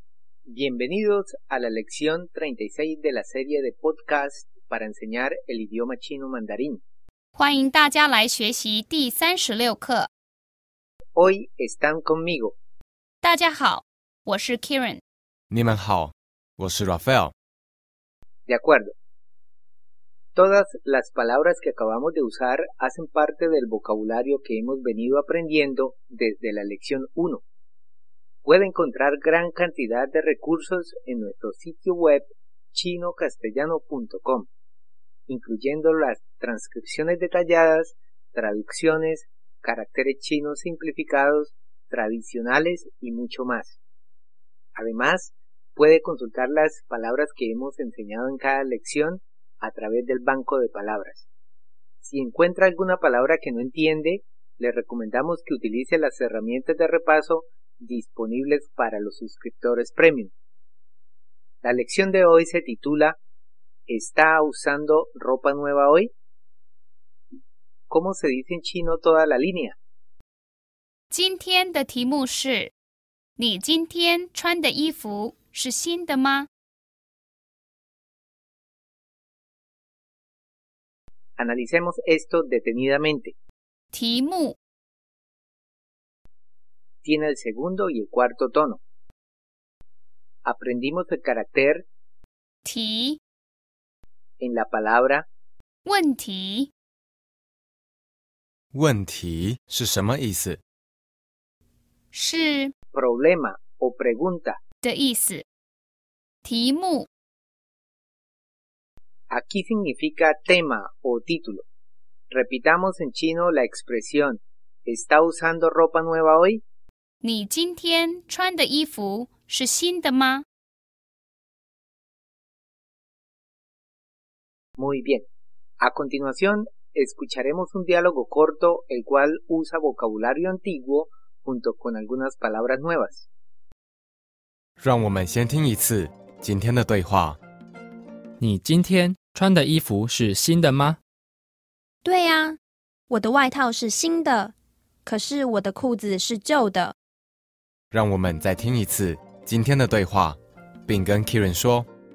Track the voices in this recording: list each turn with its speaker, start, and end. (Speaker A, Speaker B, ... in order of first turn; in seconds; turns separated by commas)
Speaker A: 0.5-6.8, Speaker B: 7.3-10.1, Speaker A: 11.2-12.6, Speaker B: 13.2-15.0, Speaker C: 15.5-17.3, Speaker A: 18.5-18.9, Speaker A: 20.3-27.4, Speaker A: 28.4-34.5, Speaker A: 35.3-43.8, Speaker A: 44.8-51.2, Speaker A: 52.0-60.3, Speaker A: 61.6-63.1, Speaker A: 63.9-66.1, Speaker A: 67.9-69.8, Speaker B: 71.1-72.7, Speaker B: 73.4-76.5, Speaker A: 81.4-83.3, Speaker B: 83.9-84.6, Speaker A: 87.0-88.8, Speaker A: 90.4-91.8, Speaker B: 92.7-93.2, Speaker A: 94.4-95.2, Speaker B: 95.8-96.7, Speaker C: 98.7-100.6, Speaker B: 102.1-102.7, Speaker A: 102.9-104.6, Speaker B: 104.8-105.4, Speaker B: 106.4-107.1, Speaker A: 109.3-111.6, Speaker A: 112.3-116.6, Speaker B: 117.2-120.4, Speaker A: 124.8-125.2, Speaker A: 125.8-133.3, Speaker C: 134.8-137.4, Speaker D: 138.4-141.0, Speaker E: 142.0-142.6, Speaker E: 143.1-144.5, Speaker E: 145.0-146.9, Speaker C: 147.9-151.9